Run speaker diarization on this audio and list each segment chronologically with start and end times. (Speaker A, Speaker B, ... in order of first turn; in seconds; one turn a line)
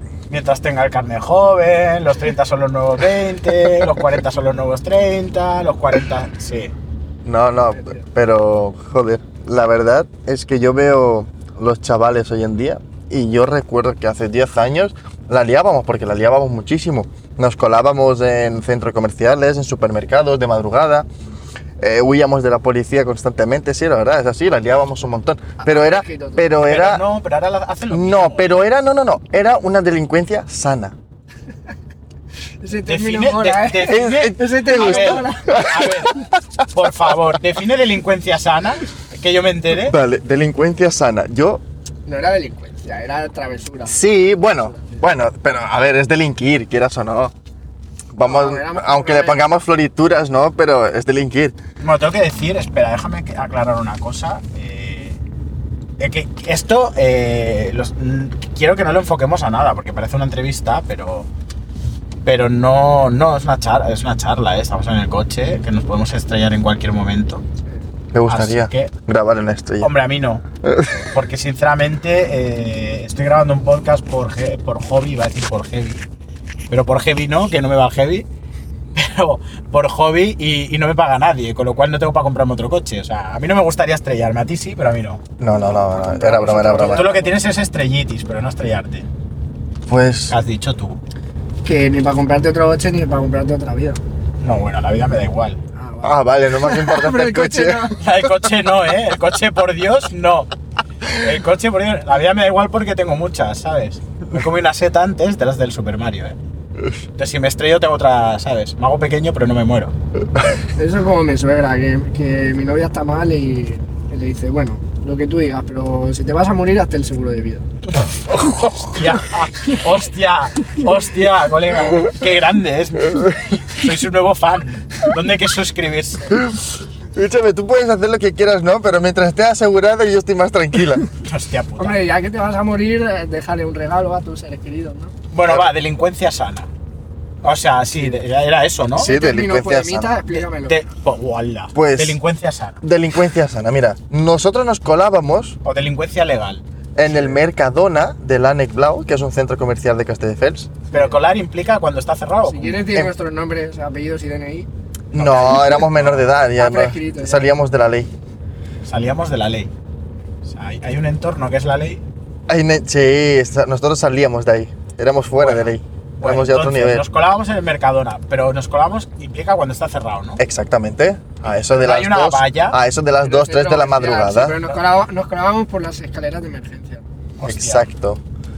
Speaker A: 0.3-6.7
Speaker B: 7.2-21.1
Speaker C: 7.8-8.0
Speaker B: 21.8-27.0
Speaker C: 25.6-26.5
Speaker A: 26.5-28.7
Speaker B: 27.9-31.0
Speaker C: 32.6-36.0
Speaker A: 32.9-40.0
Speaker B: 33.9-36.1
Speaker B: 39.7-41.6
Speaker C: 42.1-44.1
Speaker B: 43.9-47.3
Speaker C: 44.7-45.0
Speaker B: 48.1-51.6
Speaker C: 48.2-49.4
Speaker A: 51.8-55.2
Speaker A: 56.0-61.3
Speaker A: 62.2-67.4
Speaker B: 68.1-69.9
Speaker A: 68.2-68.9
Speaker A: 69.8-76.0
Speaker B: 70.6-71.1
Speaker A: 76.7-78.3
Speaker A: 79.0-85.2
Speaker B: 85.4-87.1
Speaker C: 85.6-87.3
Speaker A: 86.8-89.1
Speaker B: 89.9-90.3
Speaker A: 90.3-91.0
Speaker C: 91.7-94.0
Speaker A: 94.4-95.6
Speaker C: 95.8-98.0
Speaker B: 96.0-97.9
Speaker A: 98.0-100.5
Speaker A: 101.0-106.4
Speaker A: 107.2-110.0
Speaker C: 110.8-117.7
Speaker A: 118.0-126.4
Speaker B: 126.3-131.1
Speaker A: 131.2-132.0
Speaker C: 131.8-135.1
Speaker A: 135.3-136.7
Speaker B: 135.5-135.7
Speaker A: 137.4-139.2
Speaker C: 139.0-140.8
Speaker B: 139.0-140.2
Speaker A: 140.3-142.8
Speaker B: 141.8-142.2
Speaker B: 142.8-145.6
Speaker A: 145.6-147.4
Speaker B: 147.0-150.8
Speaker C: 150.9-151.2
Speaker A: 150.9-152.9
Speaker C: 152.4-154.7
Speaker A: 155.1-156.3
Speaker B: 155.2-158.1
Speaker C: 156.6-157.6
Speaker A: 158.8-159.7
Speaker A: 160.4-162.0
Speaker B: 162.5-167.1
Speaker A: 165.4-170.4
Speaker B: 170.4-174.6
Speaker A: 171.4-172.8
Speaker C: 173.2-177.0
Speaker A: 177.4-177.9
Speaker B: 177.4-178.2